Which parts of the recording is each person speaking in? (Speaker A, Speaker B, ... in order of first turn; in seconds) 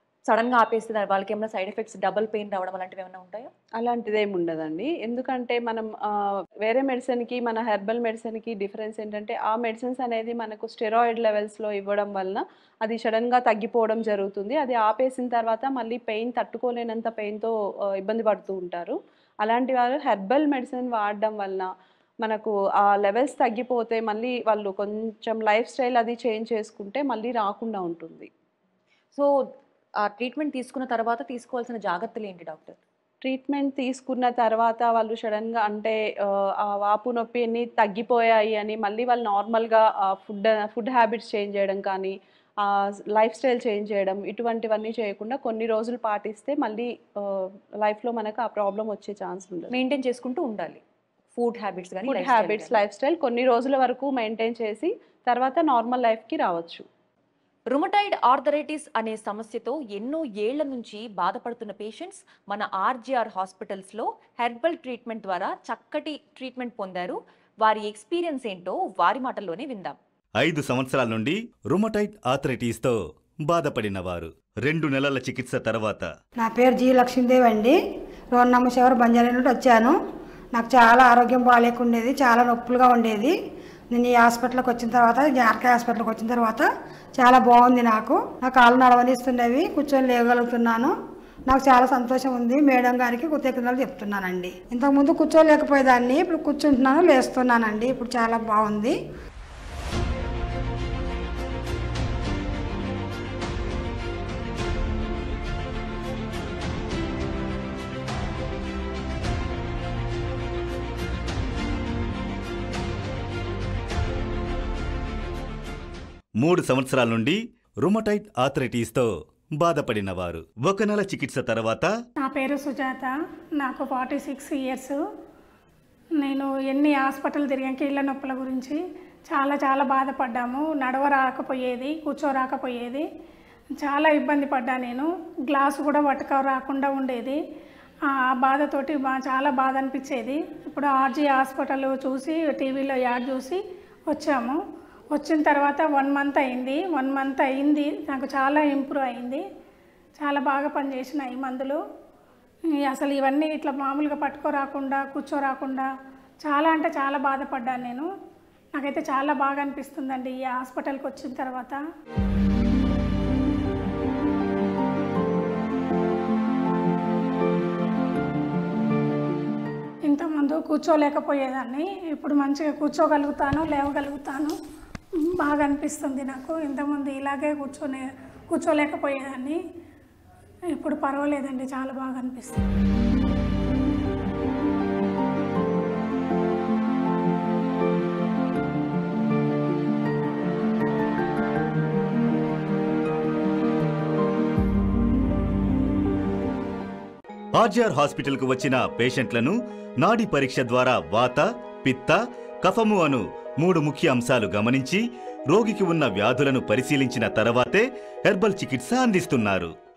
Speaker A: 0.3-3.5, 30.0-32.8, 49.7-50.8, 51.4-52.8, 57.7-70.0
Speaker B: 3.8-21.7, 22.2-28.3, 33.2-49.7, 52.1-56.9
Speaker C: 70.4-76.1, 116.4-121.9, 197.6-209.7
Speaker D: 76.4-77.8, 78.3-80.0, 80.5-83.3, 83.9-86.7, 87.2-90.9, 91.5-99.0
Speaker E: 122.2-125.0, 126.2-133.1, 133.8-137.4, 138.1-144.6, 145.1-149.4, 150.2-151.8, 152.8-155.9, 156.4-158.1, 158.8-161.8, 170.1-174.5, 175.2-179.6, 180.7-182.6